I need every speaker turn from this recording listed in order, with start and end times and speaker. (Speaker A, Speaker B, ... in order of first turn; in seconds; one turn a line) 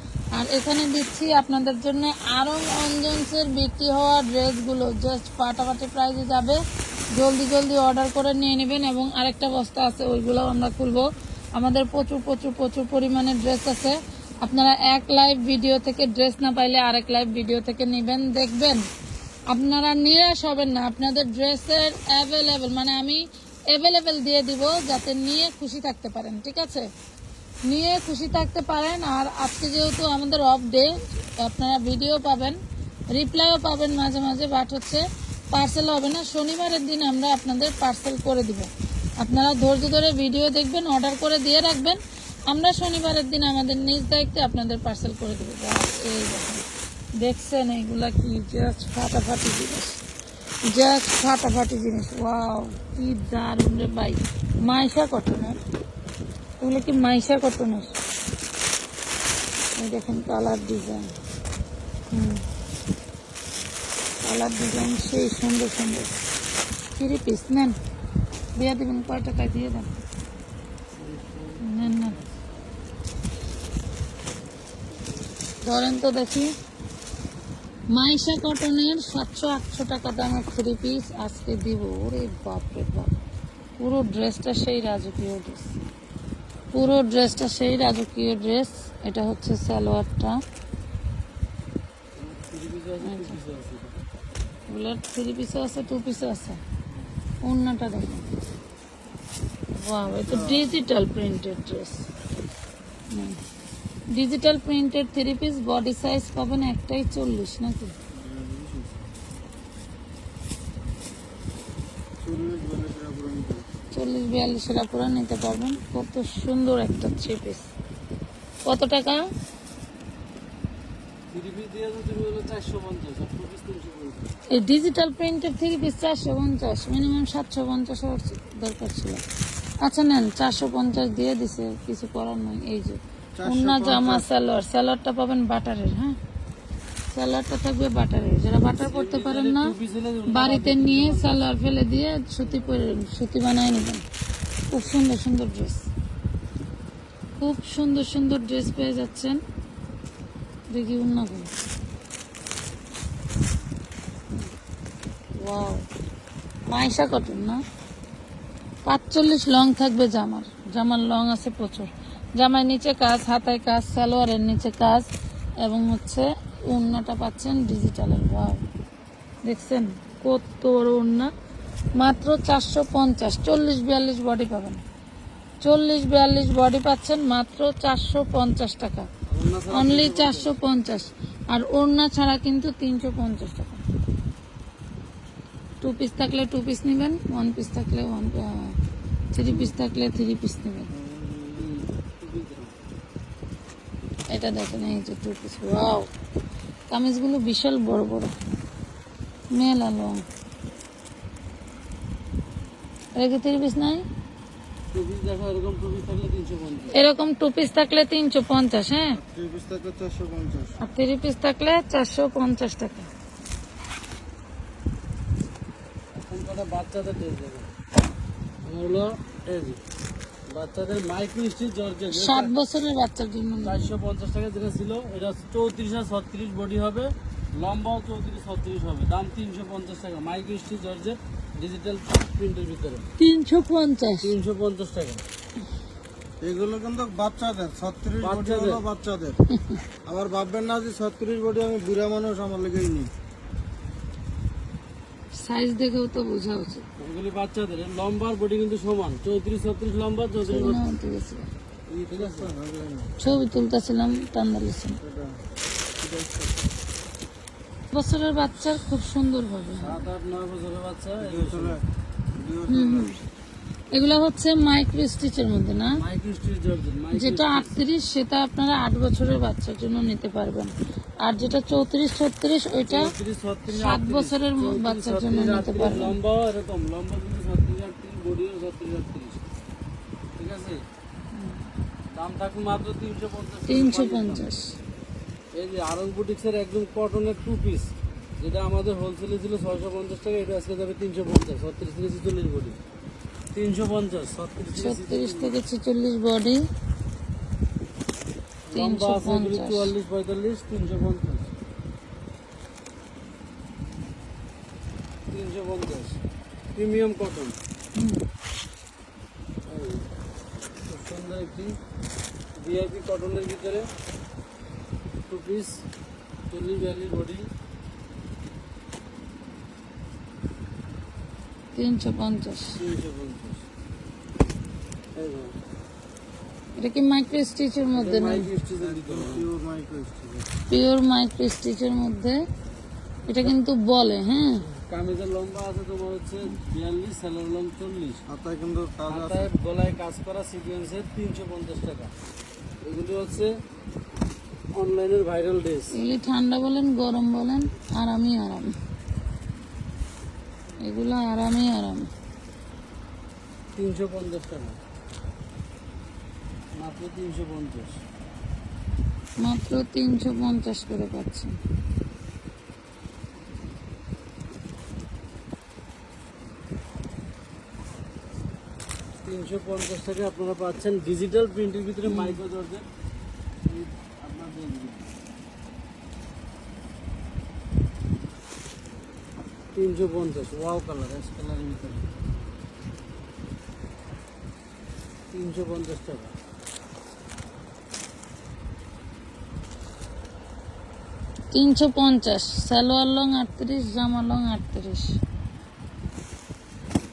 Speaker A: 0.3-6.6
Speaker A: 7.1-18.8
Speaker A: 19.5-26.9
Speaker A: 27.6-32.6
Speaker A: 33.1-46.6
Speaker A: 47.2-50.0
Speaker A: 50.6-55.6
Speaker A: 56.6-57.9
Speaker A: 59.8-61.1
Speaker A: 62.1-62.4
Speaker A: 64.2-66.1
Speaker A: 67.0-67.8
Speaker A: 68.5-69.9
Speaker B: 70.9-72.4
Speaker A: 71.6-72.2
Speaker A: 75.6-76.5
Speaker A: 77.9-83.1
Speaker A: 83.8-85.8
Speaker A: 86.7-90.4
Speaker B: 92.2-93.9
Speaker A: 93.0-93.3
Speaker A: 94.7-96.6
Speaker A: 97.4-98.3
Speaker A: 99.7-102.1
Speaker C: 100.3-100.7
Speaker A: 103.1-103.4
Speaker A: 104.1-108.0
Speaker C: 108.1-109.0
Speaker C: 112.2-113.7
Speaker A: 113.9-117.7
Speaker A: 118.6-119.3
Speaker B: 121.3-124.4
Speaker A: 124.5-129.2
Speaker A: 129.8-136.2
Speaker C: 133.3-134.3
Speaker A: 137.1-139.7
Speaker B: 138.7-141.5
Speaker A: 140.3-144.0
Speaker B: 142.4-142.8
Speaker A: 144.7-145.9
Speaker A: 147.4-149.4
Speaker A: 150.7-151.5
Speaker A: 155.4-155.9
Speaker A: 156.7-157.6
Speaker A: 158.8-165.1
Speaker A: 165.6-168.6
Speaker A: 169.4-171.3
Speaker A: 171.9-174.8
Speaker A: 175.6-179.1
Speaker B: 179.3-180.5
Speaker A: 179.7-183.8
Speaker A: 185.8-188.8
Speaker A: 189.3-190.9
Speaker C: 190.9-191.6
Speaker B: 191.6-192.7
Speaker A: 194.3-196.1
Speaker A: 196.9-198.3
Speaker A: 199.5-200.2
Speaker A: 203.1-204.1
Speaker B: 204.9-207.0
Speaker A: 206.9-209.2
Speaker C: 209.2-210.8
Speaker A: 210.8-213.1
Speaker B: 216.1-217.7
Speaker B: 218.6-219.8
Speaker B: 220.5-222.5
Speaker A: 222.1-223.9
Speaker B: 223.6-233.1
Speaker A: 233.2-234.3
Speaker B: 234.2-235.2
Speaker C: 236.4-239.4
Speaker B: 238.2-238.8
Speaker A: 239.5-239.8
Speaker C: 240.0-243.1
Speaker A: 245.3-246.8
Speaker B: 247.0-250.8
Speaker A: 250.4-251.5
Speaker B: 251.9-252.5
Speaker C: 252.1-253.1
Speaker A: 253.2-255.0
Speaker C: 255.0-255.4
Speaker A: 257.9-260.1
Speaker B: 259.8-261.8
Speaker C: 261.2-261.8
Speaker C: 262.3-263.1
Speaker A: 262.7-263.2
Speaker A: 263.9-266.0
Speaker B: 265.9-267.8
Speaker A: 267.1-273.1
Speaker B: 272.9-279.4
Speaker A: 273.7-276.1
Speaker B: 280.4-280.8
Speaker A: 281.3-281.6
Speaker B: 282.1-284.4
Speaker A: 283.7-284.8
Speaker B: 285.5-292.8
Speaker B: 293.5-295.6
Speaker A: 294.7-296.6
Speaker B: 298.7-301.5
Speaker A: 298.7-299.9
Speaker B: 305.3-306.2
Speaker B: 306.7-307.6
Speaker A: 307.9-308.2
Speaker B: 309.7-310.1
Speaker B: 310.9-311.8
Speaker B: 312.6-313.9
Speaker B: 315.3-315.9
Speaker B: 316.5-317.5
Speaker A: 321.7-322.8
Speaker B: 322.8-323.6
Speaker B: 325.1-325.6
Speaker A: 326.8-328.5
Speaker B: 327.9-329.5
Speaker C: 328.8-330.5
Speaker A: 330.7-332.4
Speaker A: 333.3-334.6
Speaker B: 334.6-338.2
Speaker C: 338.3-339.5
Speaker B: 339.1-342.1
Speaker B: 342.8-343.6
Speaker B: 344.7-346.0
Speaker A: 345.9-348.8
Speaker A: 350.8-352.1
Speaker B: 353.7-354.8
Speaker B: 356.7-358.0
Speaker A: 359.4-361.6
Speaker B: 369.2-372.9
Speaker A: 372.1-372.4
Speaker B: 373.6-375.1
Speaker B: 379.7-382.1
Speaker B: 385.3-386.3
Speaker A: 391.5-395.2